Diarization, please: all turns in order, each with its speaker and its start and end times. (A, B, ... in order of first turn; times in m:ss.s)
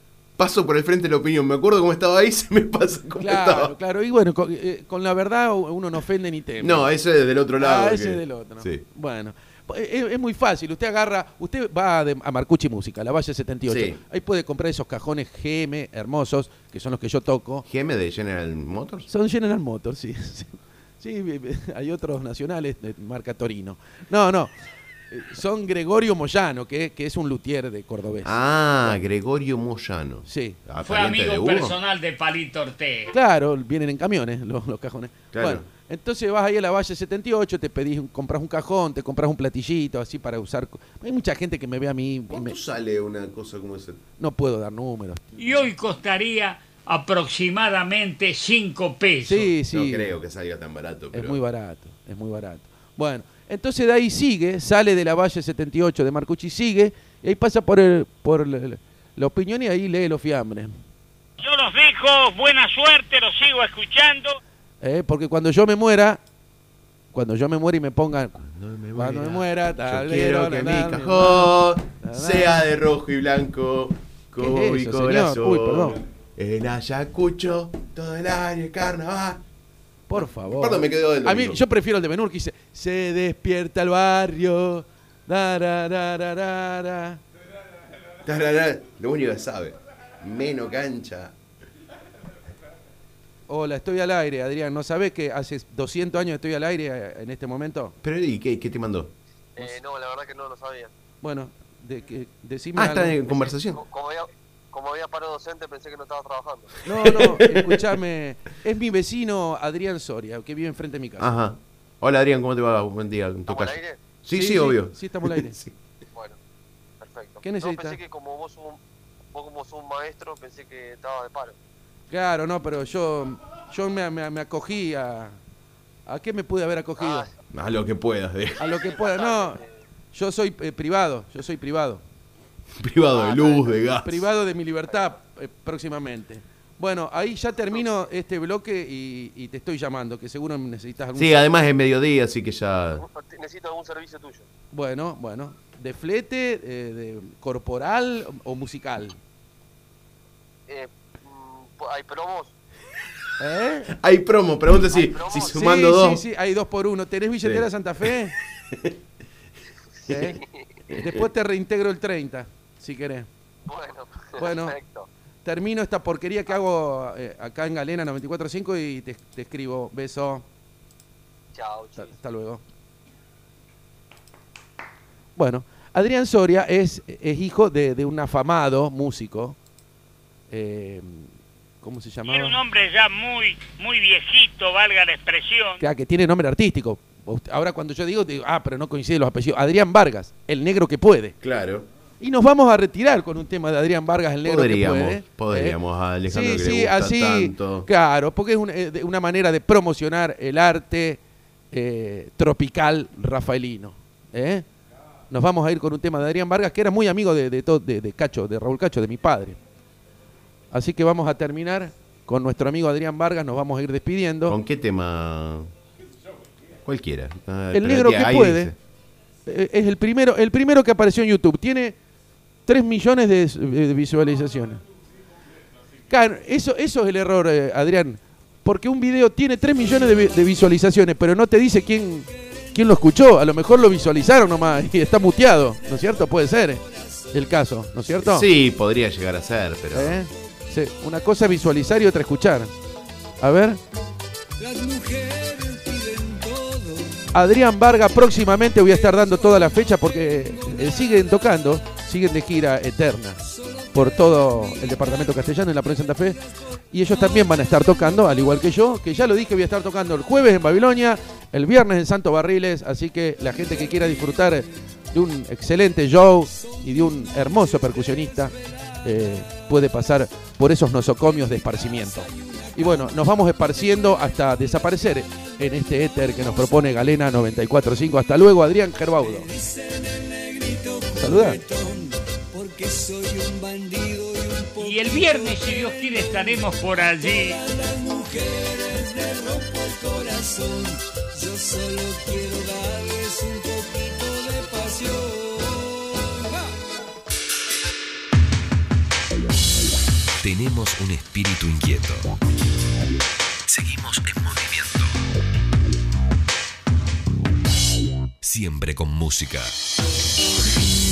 0:00.4-0:03.7 A
0:03.2-0:06.9 B
0:06.6-0:08.8 A
0:07.6-0:17.7 B
0:13.7-0:14.0 A
0:17.7-0:19.1 A
0:19.1-0:24.5 B
0:25.1-0:29.0 B
0:28.2-0:31.8 A
0:30.3-0:30.6 B
0:30.8-0:33.1 C
0:33.1-0:42.6 B
0:35.3-0:35.6 A
0:42.3-0:44.0 A
0:44.2-0:45.7 B
0:45.4-0:49.5 C
0:49.2-0:50.2 B
0:49.6-0:51.4 A
0:51.1-1:00.7 B
1:01.4-1:04.4 D
1:04.8-1:06.2 B
1:07.1-1:08.4 B
1:08.4-1:19.4 A
1:09.0-1:12.6 B
1:14.4-1:16.0 B
1:20.1-1:27.2 B
1:20.2-1:21.6 A
1:28.2-1:31.4 A
1:33.5-1:38.0 B
1:38.0-1:39.1 A
1:39.6-1:40.9 E
1:41.2-1:43.5 B
1:42.8-1:43.8 A
1:43.7-1:46.8 E
1:46.8-1:51.3 B
1:46.9-1:48.0 A
1:51.2-1:55.8 A
1:53.5-1:54.0 E
1:54.3-1:55.6 B
1:57.0-1:58.8 E
1:57.4-1:58.0 B
1:59.3-2:01.6 E
2:02.1-2:05.4 B
2:06.1-2:07.3 B
2:07.0-2:07.3 E
2:07.5-2:08.6 A
2:08.6-2:09.7 E
2:08.6-2:09.6 B
2:10.1-2:12.0 B
2:12.8-2:14.2 A
2:13.1-2:13.8 E
2:14.0-2:21.4 B
2:21.2-2:23.0 A
2:22.9-2:24.5 E
2:24.7-2:29.2 B
2:30.7-2:32.5 E
2:33.4-2:33.9 B
2:33.9-2:36.2 A
2:34.9-2:35.6 E
2:35.4-2:38.4 B
2:37.4-2:38.1 A
2:38.7-2:39.0 A
2:40.1-2:40.4 B
2:40.1-2:40.7 E
2:40.9-2:41.2 A
2:40.9-2:43.3 B
2:43.7-2:45.1 E
2:44.4-2:44.8 B
2:45.4-2:50.4 B
2:51.5-2:52.2 E
2:52.0-2:52.6 B
2:55.4-2:59.6 B
3:00.5-3:01.3 B
3:01.8-3:02.6 B
3:02.3-3:05.8 D
3:05.8-3:11.4 B
3:11.4-3:11.9 A
3:12.2-3:21.2 B
3:14.4-3:17.9 A
3:21.7-3:24.6 B
3:25.3-3:29.6 B
3:30.7-3:34.6 B
3:34.5-3:35.7 A
3:36.8-3:38.8 A
3:37.7-3:38.7 B
3:39.5-3:42.0 B
3:42.7-3:44.8 B
3:46.1-3:58.5 B
3:58.2-4:00.2 A
3:59.9-4:02.7 B
4:03.4-4:03.8 B
4:04.6-4:07.3 F
4:07.3-4:13.4 B
4:09.2-4:09.7 F
4:10.5-4:11.0 F
4:13.5-4:14.3 F
4:13.9-4:16.4 B
4:16.9-4:39.5 B
4:32.2-4:33.2 F
4:39.2-4:56.7 F
4:41.2-4:41.6 B
4:44.8-4:47.6 C
5:00.4-5:02.4 G
5:03.7-5:05.1 G
5:08.4-5:09.8 G